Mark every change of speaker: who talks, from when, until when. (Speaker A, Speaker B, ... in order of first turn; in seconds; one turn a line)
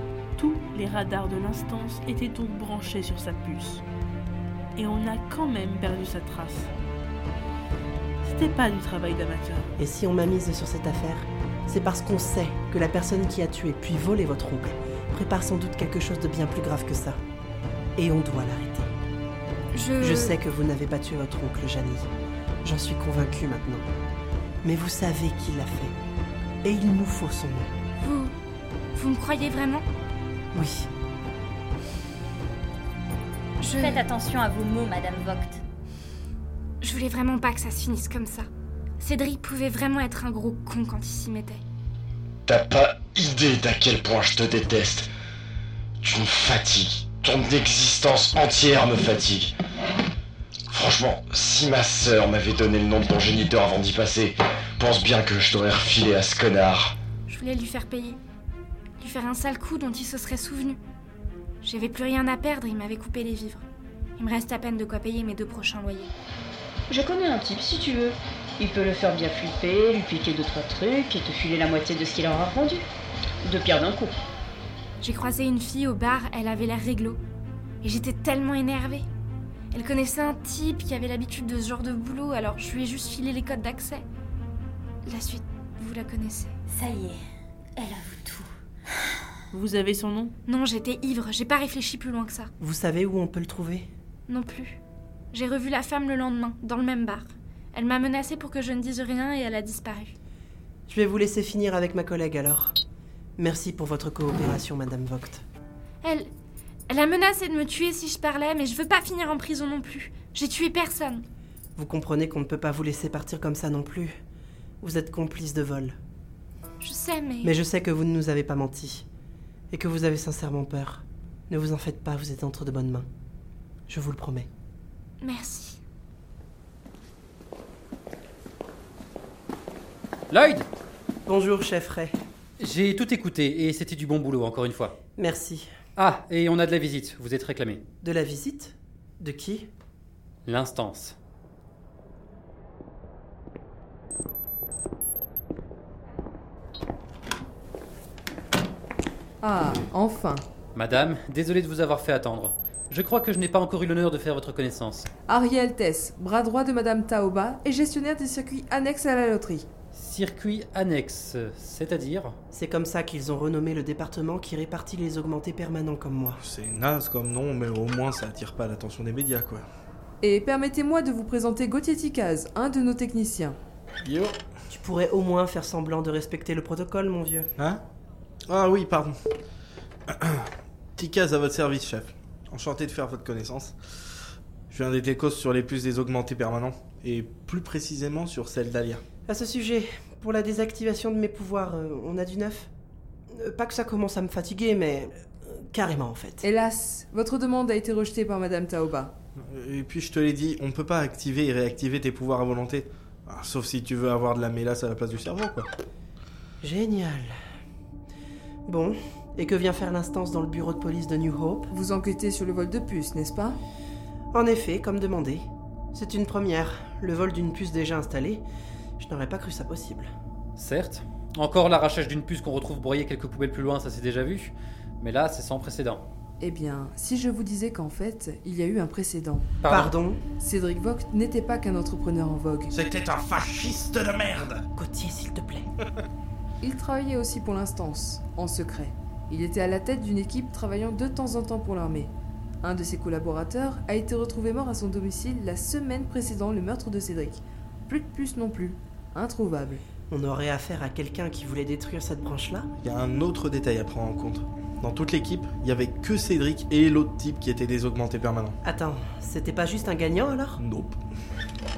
Speaker A: 0.4-3.8
Speaker A: 4.8-6.7
Speaker A: 8.2-9.7
Speaker B: 9.8-17.2
Speaker B: 18.0-18.9
Speaker C: 19.7-20.4
Speaker B: 20.0-22.1
Speaker B: 22.6-23.9
Speaker B: 24.6-26.0
Speaker B: 26.6-27.7
Speaker C: 28.0-28.3
Speaker C: 28.9-29.9
Speaker B: 30.5-30.9
Speaker C: 33.6-34.1
Speaker D: 33.8-35.6
Speaker C: 36.8-38.5
Speaker C: 39.0-41.6
Speaker E: 42.5-45.1
Speaker E: 46.0-49.5
Speaker E: 50.7-57.0
Speaker C: 57.3-58.2
Speaker C: 59.0-60.8
Speaker C: 61.6-63.6
Speaker C: 64.2-66.1
Speaker F: 66.9-72.8
Speaker F: 73.5-74.1
Speaker C: 75.0-77.2
Speaker C: 77.8-79.1
Speaker C: 79.7-84.0
Speaker C: 85.1-86.5
Speaker D: 86.7-87.2
Speaker D: 87.8-88.5
Speaker A: 89.5-90.3
Speaker C: 90.5-92.5
Speaker B: 92.6-93.9
Speaker C: 94.3-94.8
Speaker C: 95.3-100.1
Speaker B: 100.9-102.8
Speaker B: 103.4-105.4
Speaker C: 106.0-106.3
Speaker C: 106.9-111.2
Speaker B: 111.8-114.1
Speaker B: 114.8-116.0
Speaker C: 116.8-117.5
Speaker B: 117.4-119.1
Speaker B: 119.7-123.1
Speaker B: 123.9-124.5
Speaker C: 125.2-125.8
Speaker G: 130.3-130.7
Speaker B: 131.3-132.1
Speaker G: 132.6-134.9
Speaker B: 135.2-135.7
Speaker G: 136.0-137.8
Speaker B: 138.0-139.7
Speaker G: 140.5-141.2
Speaker H: 149.4-150.4
Speaker G: 150.8-155.1
Speaker H: 155.3-159.7
Speaker G: 159.9-162.4
Speaker B: 162.5-166.4
Speaker I: 166.4-169.7
Speaker H: 170.2-173.6
Speaker I: 174.0-174.3
Speaker B: 174.7-177.5
Speaker I: 178.5-179.1
Speaker I: 180.1-180.5
Speaker I: 181.0-183.7
Speaker I: 184.7-189.0
Speaker B: 189.3-192.7
Speaker B: 193.3-196.5
Speaker H: 196.4-199.1
Speaker I: 199.5-205.7
Speaker B: 206.6-207.3
Speaker B: 208.7-211.7
Speaker H: 211.7-213.6
Speaker B: 214.3-218.5
Speaker B: 219.0-220.1
Speaker G: 220.6-226.1
Speaker H: 226.4-229.6
Speaker G: 229.6-229.9
Speaker B: 229.7-230.2
Speaker H: 230.4-232.8
Speaker B: 234.8-235.7
Speaker H: 236.6-249.8
Speaker B: 250.1-252.7
Speaker I: 252.8-258.6
Speaker B: 258.6-260.6
Speaker I: 260.6-261.0